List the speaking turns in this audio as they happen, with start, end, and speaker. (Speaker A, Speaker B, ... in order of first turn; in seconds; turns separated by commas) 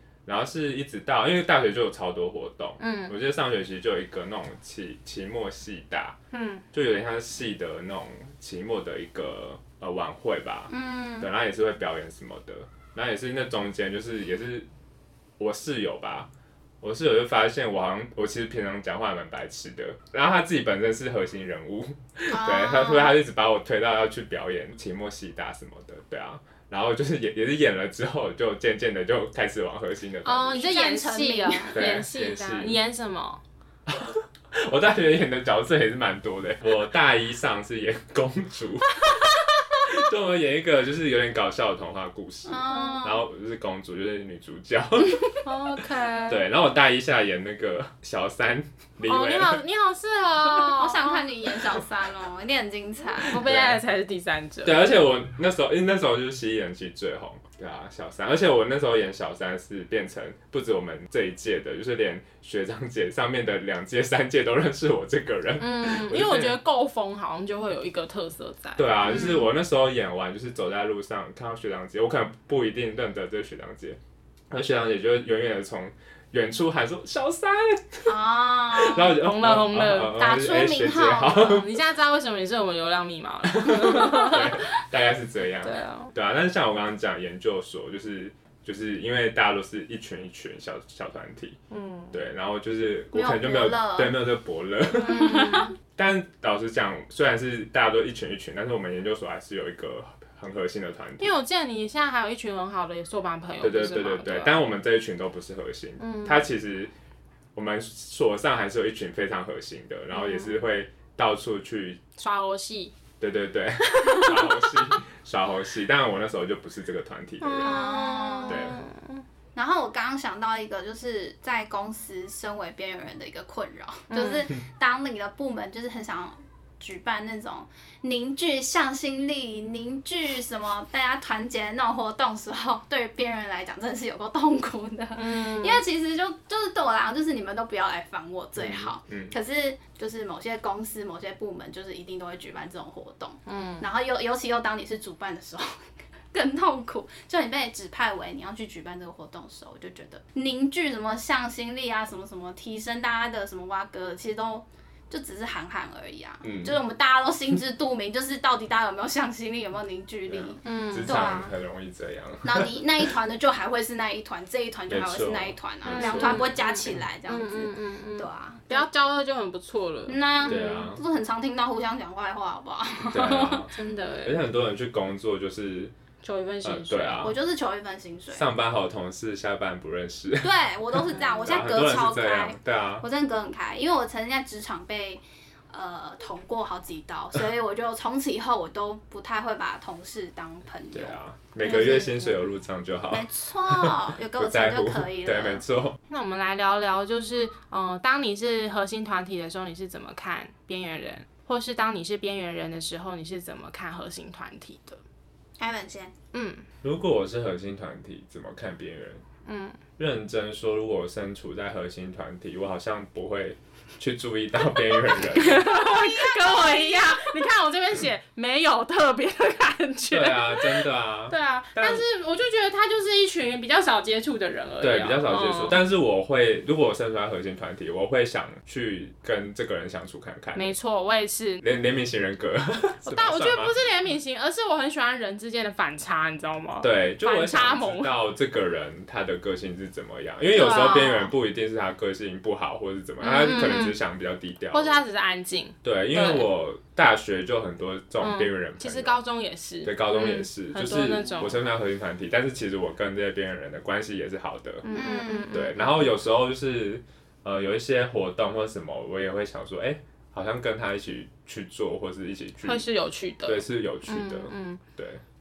Speaker A: 0.2-6.2, Speaker B: 2.8-3.1, Speaker B: 6.3-6.6, Speaker A: 6.7-14.7, Speaker C: 10.7-11.3, Speaker A: 15.4-16.3, Speaker A: 16.8-30.6, Speaker C: 22.3-23.2, Speaker B: 30.2-33.4, Speaker C: 30.5-31.8, Speaker A: 31.7-32.8, Speaker A: 33.9-45.4, Speaker C: 42.5-43.3, Speaker B: 42.7-43.0, Speaker B: 45.4-46.4, Speaker A: 46.3-49.6, Speaker B: 49.0-51.2, Speaker C: 50.5-53.4, Speaker B: 53.2-54.9, Speaker A: 53.3-53.8, Speaker A: 54.6-66.6, Speaker B: 65.6-69.3, Speaker A: 68.8-74.0, Speaker A: 74.5-78.1, Speaker C: 78.0-79.1, Speaker A: 78.7-81.7, Speaker B: 79.0-84.7, Speaker C: 80.1-81.5, Speaker A: 83.6-91.6, Speaker B: 85.6-86.1, Speaker B: 91.7-92.2, Speaker A: 92.1-101.3, Speaker C: 93.1-94.2, Speaker B: 95.0-95.7, Speaker C: 95.2-95.6, Speaker B: 101.2-104.6, Speaker A: 103.6-106.9, Speaker B: 106.0-106.5, Speaker A: 107.5-112.0, Speaker B: 110.1-110.5, Speaker B: 112.2-112.9, Speaker A: 113.2-117.8, Speaker B: 113.9-114.7, Speaker B: 117.4-119.2, Speaker C: 117.6-118.7, Speaker A: 118.5-118.8, Speaker C: 119.5-161.5, Speaker B: 124.1-124.5, Speaker B: 135.1-135.8, Speaker A: 138.6-139.3, Speaker B: 143.4-143.9, Speaker A: 156.4-156.8, Speaker A: 160.3-163.1, Speaker B: 160.6-161.5, Speaker C: 162.4-168.9, Speaker A: 164.9-166.5, Speaker B: 165.8-170.9, Speaker C: 170.1-173.7, Speaker A: 170.4-171.0, Speaker A: 173.1-175.9, Speaker B: 173.7-174.4, Speaker B: 176.2-177.2, Speaker A: 176.6-177.4, Speaker C: 177.2-178.5, Speaker A: 178.3-183.1, Speaker C: 180.4-191.2, Speaker A: 190.9-196.0, Speaker B: 191.6-192.3, Speaker C: 191.8-192.1, Speaker C: 193.1-195.6, Speaker B: 196.1-205.0, Speaker C: 205.6-206.1, Speaker B: 206.3-206.6, Speaker A: 206.8-209.2, Speaker B: 209.4-209.8, Speaker A: 210.0-215.7, Speaker B: 215.1-225.8, Speaker C: 215.7-217.3, Speaker A: 220.1-222.0, Speaker A: 224.8-230.8, Speaker B: 230.5-231.6, Speaker A: 231.6-233.7, Speaker B: 233.1-238.1, Speaker A: 236.8-245.0, Speaker B: 240.5-241.3, Speaker B: 243.2-244.0, Speaker B: 244.7-246.5, Speaker A: 245.8-249.2, Speaker B: 248.2-251.6, Speaker A: 249.8-254.9, Speaker B: 254.8-256.1, Speaker C: 254.9-255.5, Speaker A: 255.5-262.9, Speaker B: 262.6-264.8, Speaker A: 263.4-265.2